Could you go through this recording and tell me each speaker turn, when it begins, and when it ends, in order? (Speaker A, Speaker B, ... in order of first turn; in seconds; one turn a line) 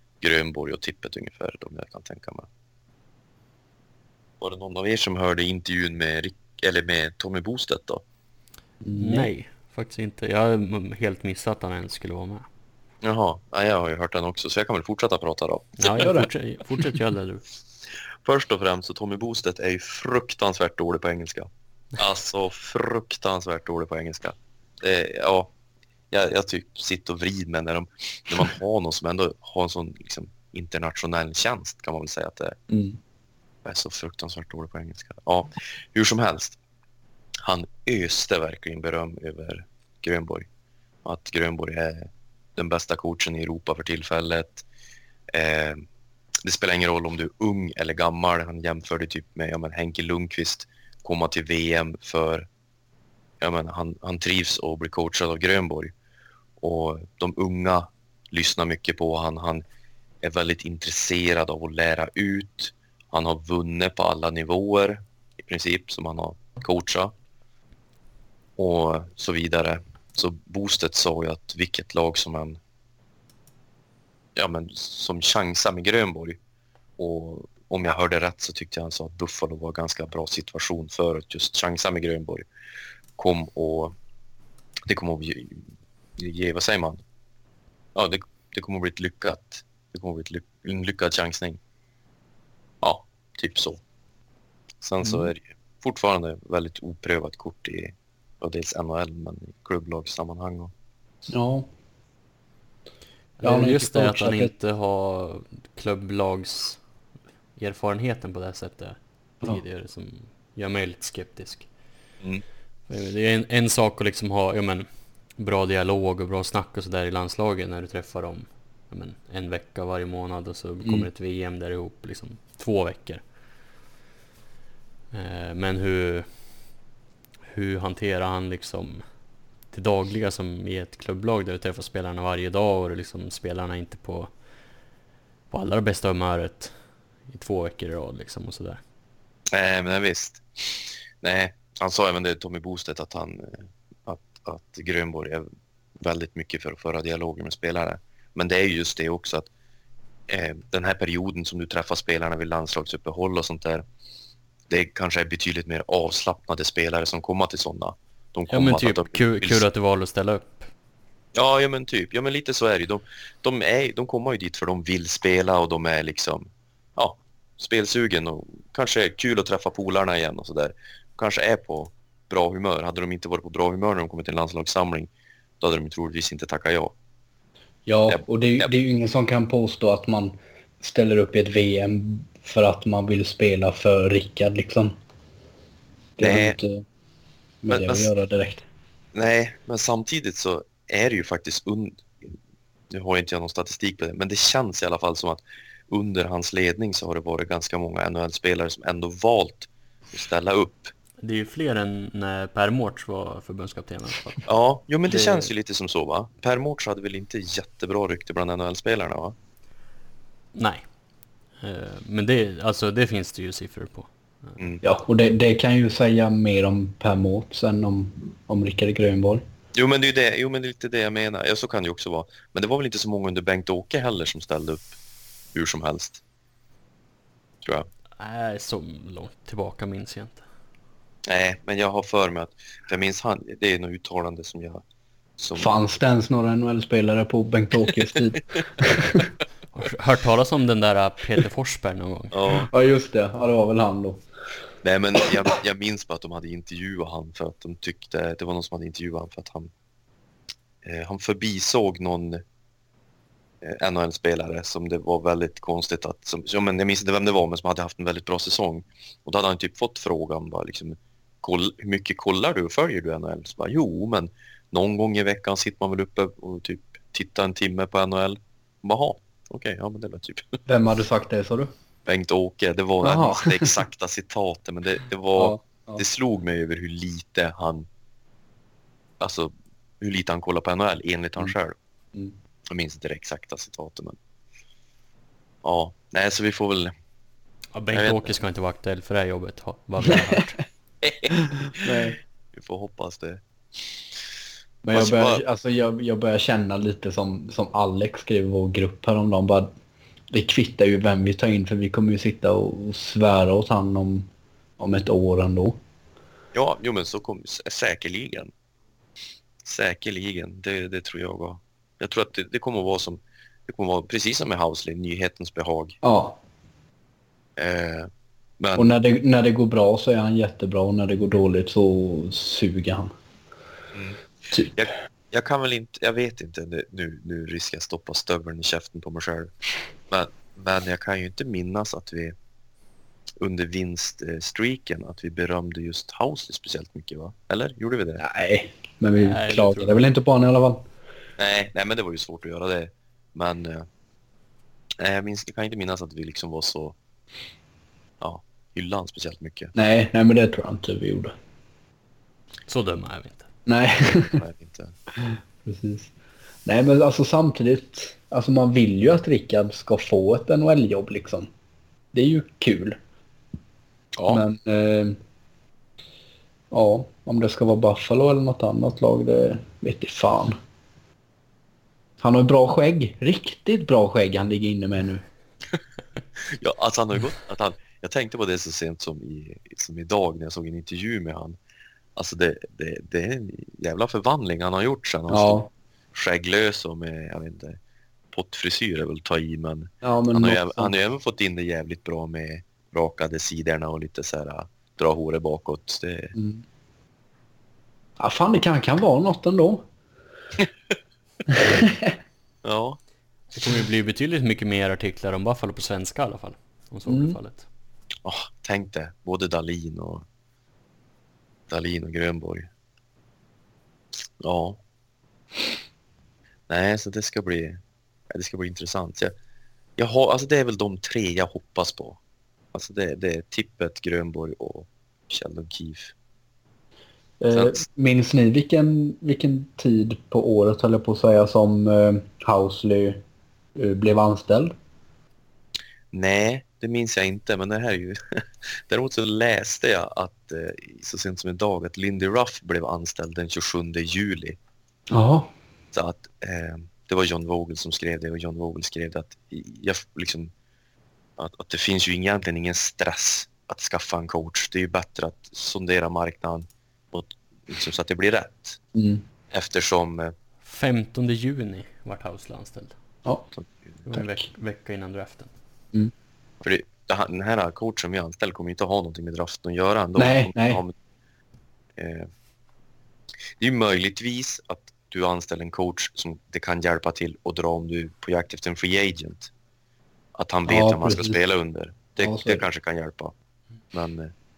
Speaker A: 0.2-2.5
Speaker A: 4.4-8.0
Speaker B: 8.8-9.3
Speaker C: 9.0-12.5
Speaker A: 13.0-16.0
Speaker C: 15.8-17.4
Speaker B: 15.9-16.3
Speaker A: 18.2-25.5
Speaker A: 26.1-32.6
Speaker B: 32.7-33.0
Speaker A: 33.6-36.6
Speaker A: 37.4-40.5
Speaker A: 41.0-44.6
Speaker A: 45.3-45.8
Speaker A: 46.4-52.5
Speaker A: 53.4-55.9
Speaker A: 56.6-59.6
Speaker A: 60.2-67.1
Speaker A: 68.6-72.6
Speaker A: 74.3-76.4
Speaker A: 77.0-82.5
Speaker A: 83.2-84.0
Speaker A: 84.8-87.0
Speaker A: 88.0-91.6
Speaker A: 92.8-93.8
Speaker A: 94.8-100.7
Speaker B: 101.3-101.7
Speaker C: 103.4-106.8
Speaker B: 103.4-104.5
Speaker C: 107.6-111.7
Speaker C: 112.9-123.3
Speaker B: 120.8-121.1
Speaker C: 125.1-126.6
Speaker C: 127.5-134.4
Speaker C: 135.5-138.8
Speaker A: 139.5-145.5
Speaker A: 146.0-149.5
Speaker A: 150.3-153.8
Speaker A: 154.7-159.7
Speaker C: 158.5-160.7
Speaker A: 161.3-176.9
Speaker B: 177.9-184.9
Speaker A: 178.1-178.7
Speaker B: 186.2-186.8
Speaker A: 186.2-186.6
Speaker B: 187.6-188.6
Speaker A: 187.7-188.1
Speaker A: 189.1-192.4
Speaker A: 192.9-200.9
Speaker C: 201.2-204.4
Speaker A: 204.5-209.4
Speaker C: 205.1-205.5
Speaker C: 210.5-210.8
Speaker C: 211.6-214.6
Speaker B: 214.8-219.4
Speaker A: 219.7-224.9
Speaker A: 225.5-226.2
Speaker C: 228.2-230.4
Speaker A: 231.2-234.8
Speaker A: 235.4-235.8
Speaker B: 235.6-239.3
Speaker C: 239.7-242.3
Speaker A: 242.3-242.7
Speaker B: 242.7-244.2
Speaker A: 244.8-249.7
Speaker A: 250.8-252.4
Speaker A: 253.6-270.6
Speaker B: 270.7-271.7
Speaker A: 272.1-277.9
Speaker B: 273.0-273.8
Speaker B: 275.4-276.0
Speaker A: 279.2-281.8
Speaker A: 282.7-284.2
Speaker A: 285.6-286.9
Speaker C: 287.7-290.6
Speaker A: 287.9-288.3
Speaker A: 291.0-293.4
Speaker B: 291.6-292.2
Speaker B: 294.8-299.7
Speaker A: 294.9-295.4
Speaker B: 300.3-304.3
Speaker B: 304.8-305.8
Speaker A: 306.5-308.5
Speaker A: 309.6-316.0
Speaker B: 316.0-316.4
Speaker A: 317.6-318.9
Speaker B: 318.8-323.1
Speaker A: 323.9-324.2
Speaker A: 324.7-329.5
Speaker A: 330.1-332.4
Speaker A: 333.4-338.2
Speaker B: 338.2-340.8
Speaker C: 339.2-340.0
Speaker A: 341.4-343.9
Speaker A: 345.0-347.0
Speaker A: 348.2-349.7
Speaker B: 349.8-351.3
Speaker C: 352.7-353.5
Speaker B: 353.7-354.4
Speaker A: 354.3-354.9
Speaker B: 355.2-356.1
Speaker B: 356.6-361.5
Speaker B: 362.1-363.0
Speaker A: 364.1-364.4
Speaker B: 364.3-365.2
Speaker B: 366.7-370.6
Speaker B: 372.2-375.2
Speaker A: 376.4-381.6
Speaker A: 382.1-385.6
Speaker B: 385.3-385.7
Speaker A: 386.1-387.8
Speaker A: 388.3-396.3
Speaker B: 390.0-390.9
Speaker B: 396.3-396.6
Speaker B: 398.2-399.9
Speaker B: 401.6-402.1
Speaker A: 402.6-403.0
Speaker C: 403.6-407.7
Speaker B: 407.1-407.4
Speaker A: 408.2-410.2
Speaker A: 411.7-412.7
Speaker A: 414.4-414.8
Speaker A: 416.7-419.4
Speaker A: 420.0-422.2
Speaker A: 422.7-426.1
Speaker B: 427.4-433.2
Speaker A: 427.5-427.8
Speaker B: 433.8-434.7
Speaker A: 436.1-444.6
Speaker B: 445.1-445.5
Speaker A: 445.9-450.5
Speaker A: 451.4-458.8
Speaker B: 458.9-459.2
Speaker A: 459.5-460.3
Speaker C: 460.6-463.0
Speaker A: 463.6-464.0
Speaker C: 464.1-465.5
Speaker B: 464.1-464.4
Speaker A: 466.6-470.9
Speaker B: 470.2-470.8
Speaker A: 472.0-472.3
Speaker A: 473.6-479.5
Speaker A: 480.4-483.3
Speaker B: 480.7-481.4
Speaker B: 482.2-482.6
Speaker A: 483.9-484.3